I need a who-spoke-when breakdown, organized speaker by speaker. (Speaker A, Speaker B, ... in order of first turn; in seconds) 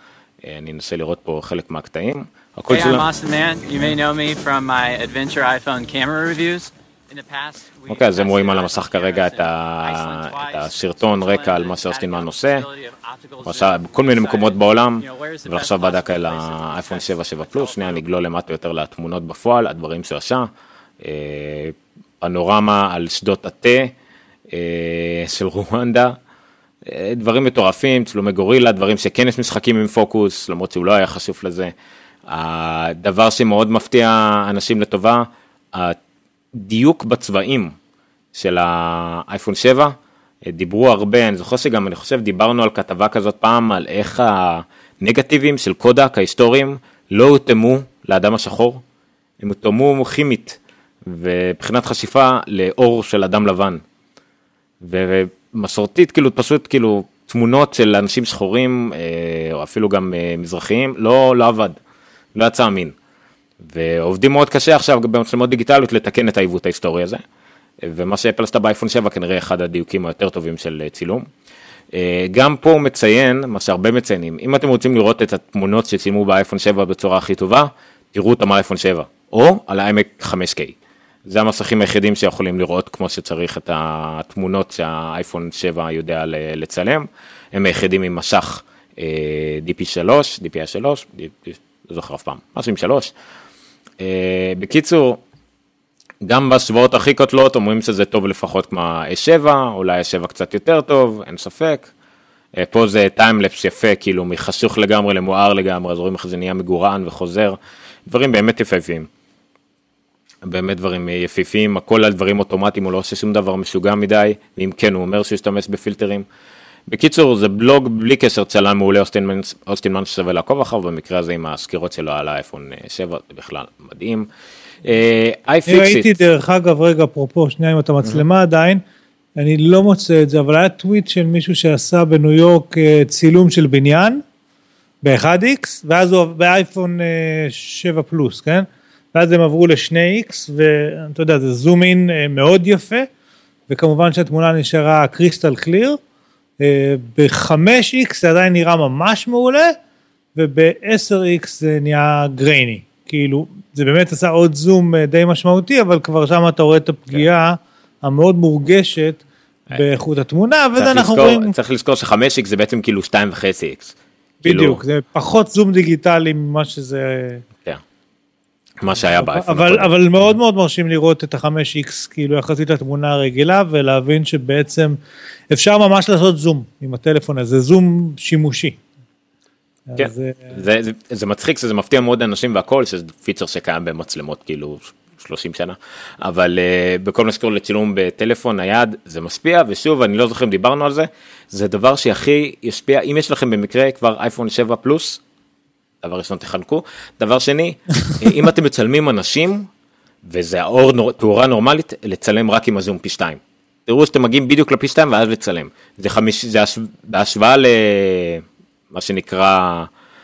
Speaker A: 0.4-3.1, 7.9-12.7, 13.4-20.5, 21.0-23.9, 24.5-26.2, 26.9-31.7, 32.3-36.0, 36.5-37.8, 38.4-48.8, 49.4-53.8, 54.8-61.8, 62.4-63.0, 63.6-67.2, 67.8-71.3, 71.9-80.8, 81.3-93.1, 94.0-95.2, 96.2-101.9, 102.6-109.1, 110.4-116.3, 116.9-124.3, 124.8-126.1, 160.8-164.8, 168.8-170.3, 180.0-195.2, 196.0-199.7, 200.3-209.9
Speaker B: 2.7-18.0
Speaker C: 125.7-128.8, 129.4-134.2, 135.0-143.1, 143.7-146.0, 146.6-149.8, 150.4-159.2, 159.7-161.5, 164.4-167.4, 169.0-175.0, 175.5-178.8, 179.9-180.6